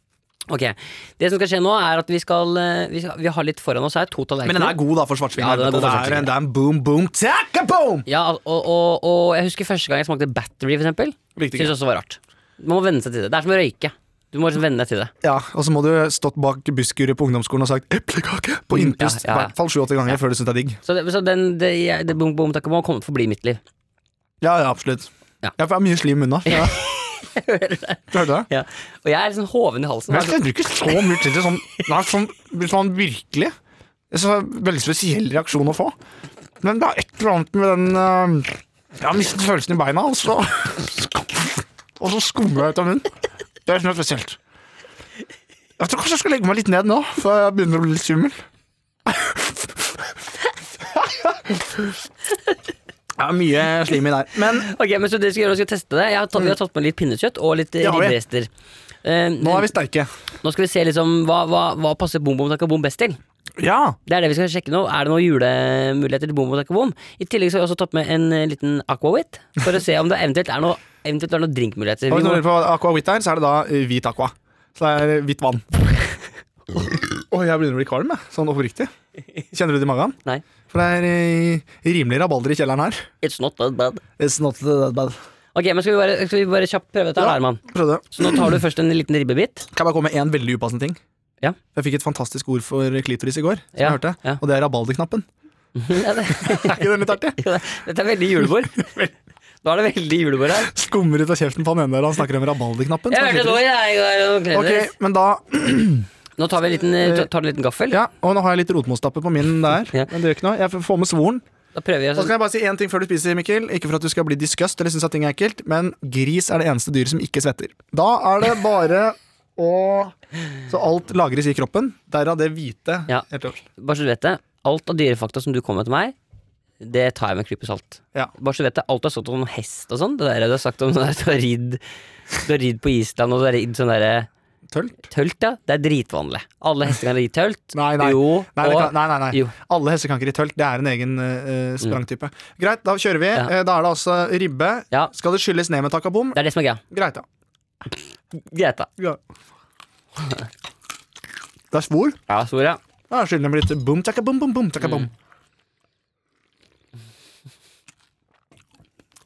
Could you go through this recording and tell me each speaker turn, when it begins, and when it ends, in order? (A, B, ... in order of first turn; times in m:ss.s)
0:00.5-0:04.8 A
0:04.4-0:08.0 B
0:05.3-0:06.3 A
0:08.0-0:15.1 A
0:11.4-0:11.7 B
0:15.2-0:20.8 B
0:18.7-0:19.5 A
0:20.8-0:23.6 A
0:24.4-0:26.8 B
0:26.4-0:31.8 A
0:28.1-0:28.5 B
0:30.1-0:33.5 B
0:34.1-0:36.0 B
0:36.6-0:43.1 B
0:43.6-0:44.4 B
0:45.8-0:48.4 B
0:49.0-0:50.1 B
0:50.8-0:52.0 B
0:53.2-0:54.7 B
0:54.5-0:58.5 A
0:57.8-0:58.2 B
0:59.0-0:59.7 A
0:59.4-1:00.1 B
1:00.4-1:03.2 A
1:03.6-1:04.0 B
1:04.0-1:12.4 A
1:12.1-1:15.9 B
1:17.1-1:18.9 B
1:19.5-1:20.2 B
1:20.7-1:23.1 B
1:23.2-1:24.0 A
1:24.2-1:25.2 B
1:25.5-1:27.6 A
1:27.2-1:28.6 B
1:28.1-1:29.7 A
1:29.7-1:31.0 B
1:31.7-1:35.2 B
1:33.7-1:34.4 A
1:35.8-1:39.1 A
1:36.3-1:37.4 B
1:38.8-1:39.1 B
1:39.6-1:40.7 A
1:40.6-1:43.6 B
1:43.1-1:44.9 A
1:44.5-1:46.1 B
1:46.4-1:48.0 A
1:47.0-1:47.3 B
1:47.9-1:51.4 B
1:51.7-1:52.3 A
1:52.2-2:00.1 B
2:00.7-2:03.6 B
2:03.1-2:06.1 A
2:06.8-2:11.8 A
2:12.4-2:14.3 A
2:14.7-2:15.0 B
2:15.1-2:19.5 A
2:17.7-2:26.4 B
2:26.3-2:26.8 A
2:26.9-2:27.2 B
2:28.3-2:28.9 A
2:30.2-2:30.5 A
2:31.7-2:32.2 B
2:32.3-2:32.8 A
2:33.1-2:35.1 B
2:34.8-2:35.1 A